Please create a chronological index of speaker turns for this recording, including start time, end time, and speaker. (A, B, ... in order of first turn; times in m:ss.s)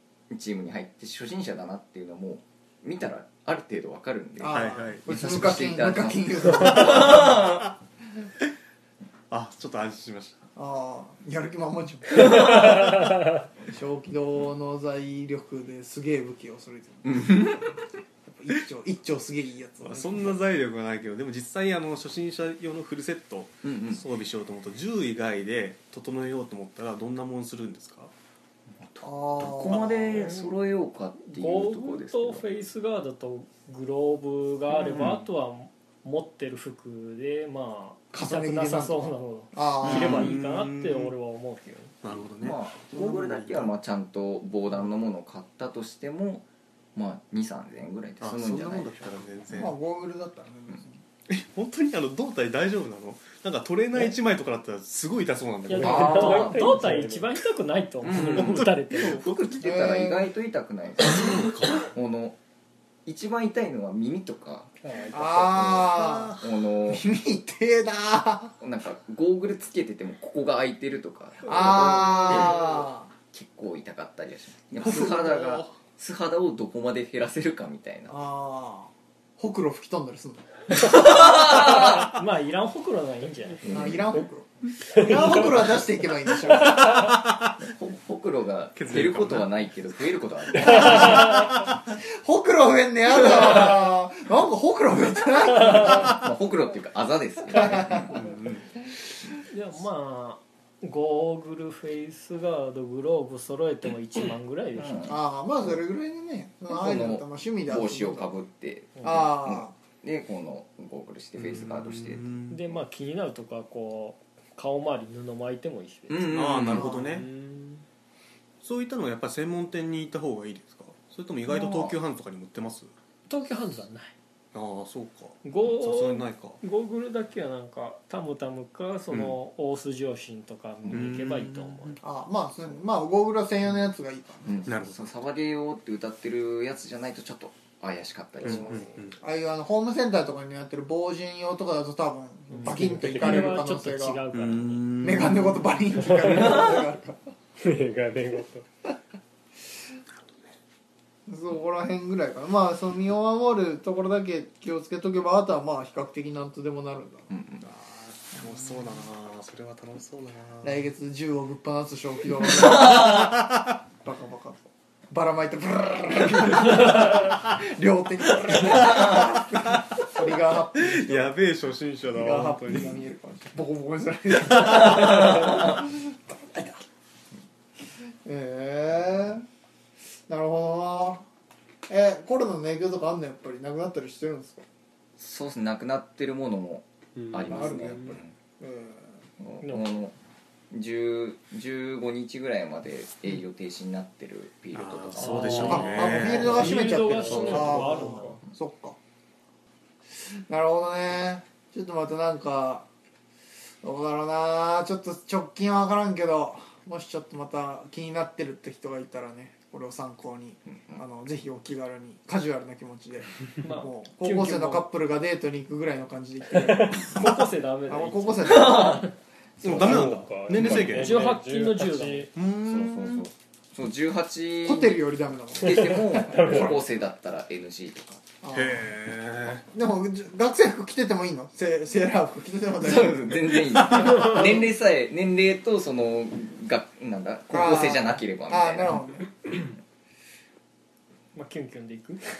0:00.3-0:07.7 A
0:04.4-0:07.4 B
0:04.5-0:05.1 C
0:07.1-0:07.7 C
0:09.3-0:10.4 C
0:10.6-0:17.3 B
0:12.2-0:12.7 A
0:17.0-0:17.9 A
0:18.2-0:20.4 B
0:19.8-0:28.1 C
0:23.6-0:24.0 A
0:28.8-0:32.4 A
0:29.0-0:29.9 B
0:29.7-0:30.4 C
0:30.2-0:30.5 D
0:31.2-0:41.9 D
0:34.7-0:35.2 A
0:38.1-0:40.3 B
0:39.8-0:40.3 A
0:39.9-0:41.1 C
0:42.0-0:43.7 C
0:42.4-0:49.2 A
0:48.2-0:49.8 C
0:49.5-0:51.0 B
0:51.3-0:56.5 C
0:55.7-0:59.3 D
0:55.8-0:57.3 E
0:55.8-0:56.9 A
0:58.0-0:59.6 C
0:58.1-1:02.4 A
0:59.6-1:00.3 B
1:01.1-1:01.9 C
1:03.0-1:04.8 A
1:04.8-1:05.4 E
1:05.1-1:08.6 B
1:05.4-1:07.0 A
1:05.9-1:06.4 C
1:08.6-1:12.8 A
1:11.5-1:13.1 B
1:13.3-1:18.2 A
1:14.8-1:15.8 C
1:18.1-1:20.5 B
1:20.8-1:22.1 A
1:20.9-1:23.9 D
1:23.6-1:24.2 A
1:23.7-1:27.1 B
1:24.9-1:25.6 D
1:26.6-1:27.0 D
1:26.7-1:27.6 C
1:27.6-1:31.4 A
1:28.8-1:29.5 C
1:30.6-1:31.8 C
1:30.7-1:31.5 D
1:32.0-1:36.3 B
1:35.6-1:38.3 A
1:37.5-1:38.2 B
1:38.1-1:38.6 C
1:39.5-1:45.1 D
1:44.8-1:45.8 A
1:45.1-1:48.4 B
1:46.7-1:52.2 A
1:49.0-1:49.3 D
1:49.0-1:49.7 B
1:51.4-1:52.7 C
1:52.5-1:56.2 D
1:56.1-1:57.0 A
1:56.2-1:57.3 C
1:57.4-1:57.7 D
1:58.6-2:02.9 C
2:01.5-2:02.0 A
2:03.3-2:04.2 D
2:04.5-2:06.6 C
2:05.4-2:12.0 D
2:09.1-2:09.4 C
2:10.9-2:12.0 C
2:12.0-2:14.6 B
2:14.4-2:18.9 A
2:14.7-2:15.1 C
2:18.4-2:19.2 C
2:19.2-2:24.2 B
2:22.5-2:23.6 E
2:22.6-2:24.9 D
2:24.3-2:26.6 C
2:25.0-2:27.2 B
2:26.0-2:26.6 D
2:27.6-2:28.1 E
2:28.0-2:28.6 D
2:31.3-2:37.3 B
2:37.3-2:37.6 A
2:37.6-2:40.8 C
2:38.4-2:38.9 B
2:40.6-2:43.2 B
2:42.7-2:43.8 C
2:44.0-2:51.4 B
2:50.7-2:53.0 C
2:52.2-2:56.8 B
2:54.6-2:55.8 A
2:58.2-2:59.5 B
3:00.3-3:01.3 B
3:01.9-3:04.6 B
3:05.2-3:08.4 A
3:07.2-3:08.2 E
3:07.5-3:09.2 B
3:09.4-3:10.2 A
3:09.6-3:10.0 D
3:10.7-3:16.0 A
3:14.7-3:17.7 C
3:15.2-3:18.4 D
3:15.6-3:19.0 B
3:16.8-3:18.4 E
3:20.2-3:22.9 B
3:23.8-3:39.1 B
3:30.7-3:31.0 A
3:33.6-3:34.9 D
3:36.6-3:39.1 D
3:38.4-3:39.1 A
3:39.6-3:40.2 B
3:39.6-3:41.4 C
3:39.7-3:42.3 E
3:40.6-3:42.3 D
3:42.3-3:43.3 C
3:42.6-3:45.0 A
3:44.6-3:46.8 B
3:45.5-3:48.2 A
3:46.3-3:46.7 D
3:46.5-3:46.8 E
3:48.4-3:48.9 B
3:48.5-3:49.7 C
3:49.7-3:54.4 B
3:52.8-3:59.0 A
3:57.5-3:59.3 B
4:01.4-4:02.2 D